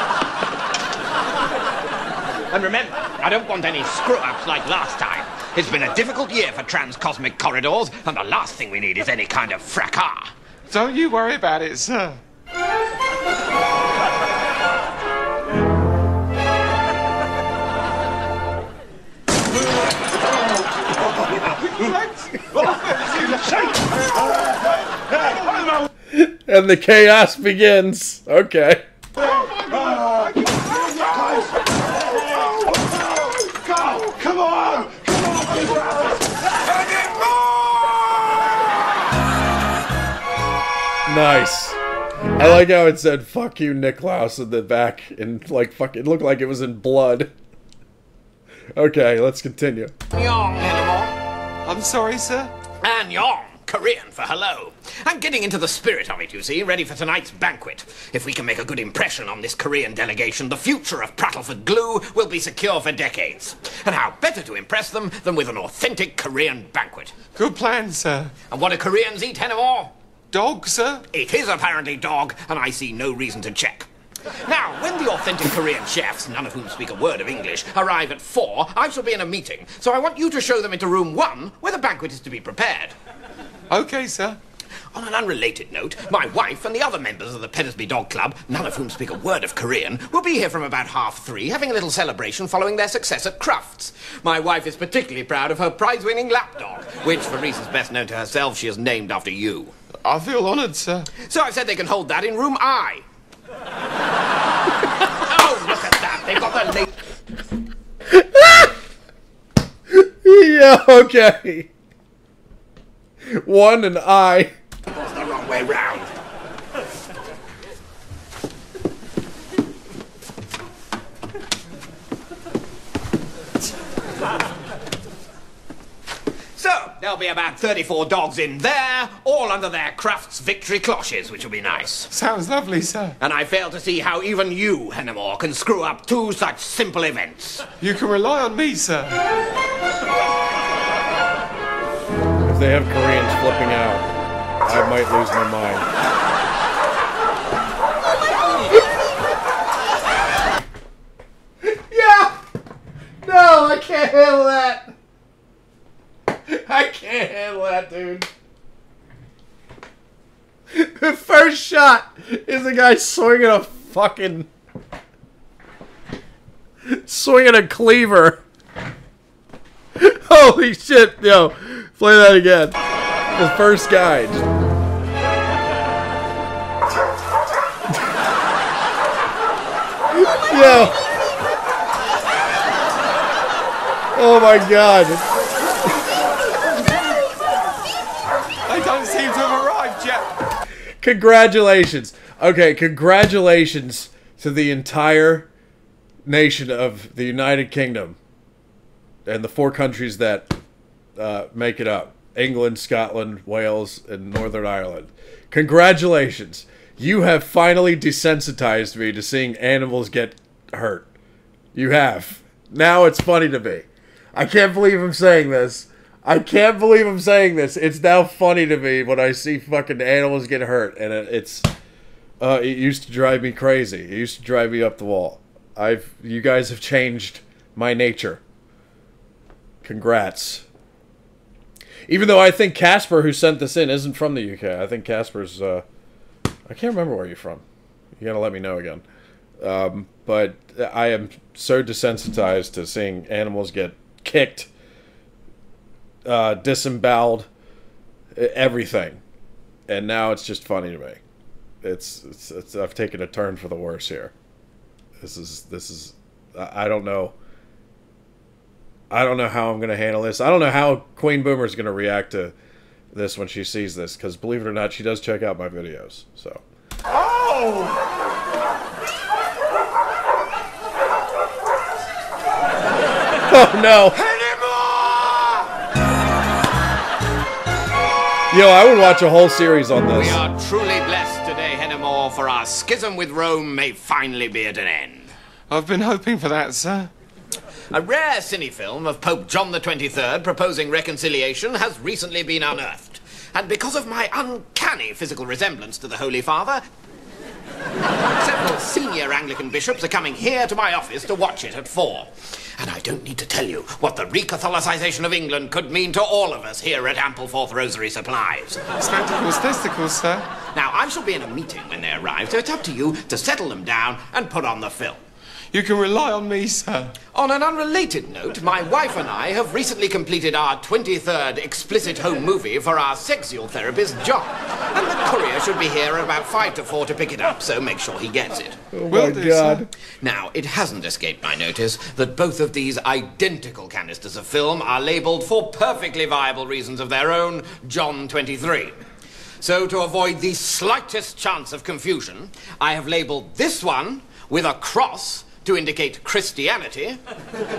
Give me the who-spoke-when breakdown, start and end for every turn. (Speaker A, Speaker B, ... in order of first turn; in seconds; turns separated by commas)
Speaker A: 2.5-10.3, Speaker B: 10.7-12.2, Speaker B: 21.4-23.9, Speaker C: 26.1-28.8, Speaker B: 29.2-31.4, Speaker B: 33.5-35.2, Speaker A: 36.8-38.0, Speaker C: 41.1-41.8, Speaker C: 42.3-47.3, Speaker C: 48.7-49.9, Speaker A: 50.1-51.2, Speaker B: 51.6-52.5, Speaker A: 52.8-67.1, Speaker B: 67.3-68.3, Speaker A: 68.5-69.9, Speaker B: 70.3-71.0, Speaker A: 71.1-73.9, Speaker A: 74.4-82.9, Speaker B: 83.7-84.4, Speaker A: 84.9-99.7, Speaker B: 100.0-101.1, Speaker A: 101.2-103.0, Speaker A: 105.2-106.9, Speaker C: 108.1-108.7, Speaker C: 109.9-111.7, Speaker C: 113.2-114.5, Speaker A: 114.9-116.1, Speaker A: 126.6-132.1, Speaker B: 132.1-133.2, Speaker A: 133.2-137.7, Speaker B: 137.8-139.2, Speaker C: 142.4-144.1, Speaker C: 144.6-145.9, Speaker C: 151.6-152.3, Speaker C: 153.2-154.9, Speaker C: 156.5-158.3, Speaker C: 160.7-164.5, Speaker C: 166.8-168.4, Speaker C: 170.0-172.8, Speaker C: 173.3-174.5, Speaker C: 180.1-181.0, Speaker C: 184.1-185.3, Speaker B: 188.7-190.3, Speaker C: 191.0-195.5, Speaker C: 196.2-198.2, Speaker C: 199.2-200.5, Speaker C: 201.2-211.1, Speaker C: 211.7-221.7, Speaker C: 222.4-228.4, Speaker C: 229.8-230.7, Speaker C: 232.1-235.8, Speaker C: 236.7-237.6, Speaker C: 238.2-239.0, Speaker C: 239.6-244.7, Speaker C: 246.2-247.5, Speaker C: 248.3-249.2, Speaker C: 249.9-251.2, Speaker C: 251.8-254.3, Speaker C: 255.2-257.3, Speaker C: 259.1-262.5, Speaker C: 263.1-266.6, Speaker B: 267.5-267.8, Speaker C: 273.5-274.2, Speaker A: 274.3-275.6, Speaker C: 278.5-280.4, Speaker A: 280.1-285.3, Speaker B: 285.7-287.1, Speaker A: 287.9-296.8, Speaker A: 298.3-308.8, Speaker B: 309.0-310.5, Speaker A: 310.7-315.2, Speaker B: 315.7-317.2, Speaker A: 317.3-328.8, Speaker C: 328.9-329.9, Speaker B: 329.1-329.8, Speaker A: 330.1-338.9, Speaker A: 339.6-347.2